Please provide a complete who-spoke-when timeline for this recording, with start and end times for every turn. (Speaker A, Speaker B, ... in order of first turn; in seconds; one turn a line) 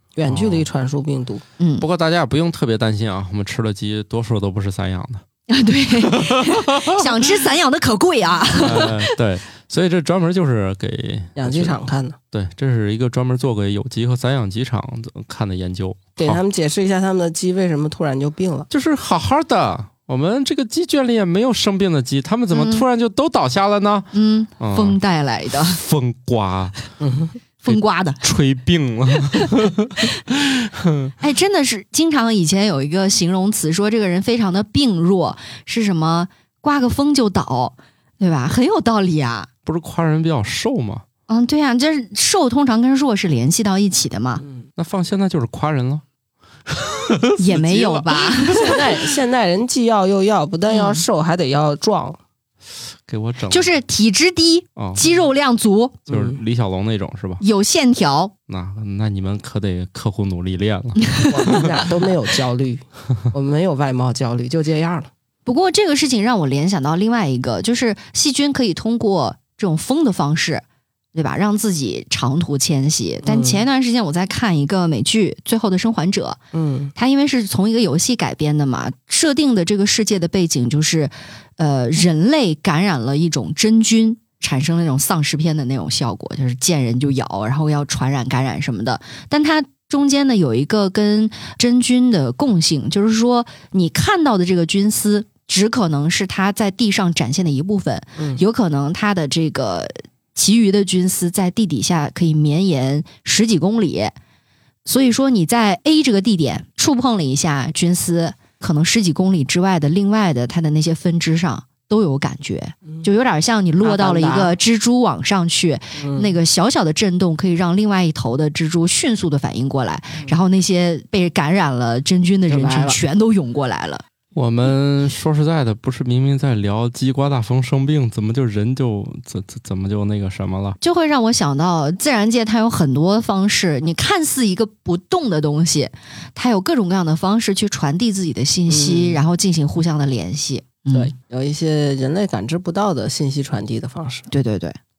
Speaker A: 0.2-1.4
Speaker B: 0.3-0.7
Speaker C: 1.6-1.9
Speaker B: 1.8-5.2
Speaker C: 5.5-9.2
Speaker B: 6.0-7.4
Speaker B: 8.6-11.8
Speaker A: 11.4-12.2
Speaker B: 12.3-16.4
Speaker A: 16.2-18.7
Speaker B: 18.7-25.0
Speaker C: 22.5-22.9
Speaker C: 24.1-25.8
Speaker B: 25.5-26.8
Speaker A: 27.0-27.3
Speaker C: 27.6-28.2
Speaker B: 27.7-31.1
Speaker C: 29.2-29.6
Speaker C: 31.2-39.5
Speaker B: 39.7-41.0
Speaker C: 41.3-44.4
Speaker B: 44.8-46.0
Speaker B: 46.7-48.8
Speaker C: 47.4-48.8
Speaker A: 48.5-52.2
Speaker C: 50.7-51.0
Speaker B: 53.1-53.7
Speaker C: 53.5-56.0
Speaker B: 54.8-55.1
Speaker B: 56.1-57.4
Speaker A: 56.1-56.4
Speaker C: 57.4-58.3
Speaker B: 58.5-61.9
Speaker A: 61.3-65.1
Speaker C: 65.5-76.4
Speaker A: 73.2-73.6
Speaker A: 76.5-76.9
Speaker C: 77.0-104.1
Speaker A: 98.2-98.4
Speaker C: 104.8-124.0
Speaker A: 113.8-114.5
Speaker A: 116.0-116.3
Speaker A: 122.5-123.0
Speaker B: 124.3-130.8
Speaker C: 130.8-141.1
Speaker A: 138.7-139.2
Speaker A: 140.9-144.3
Speaker C: 144.3-144.8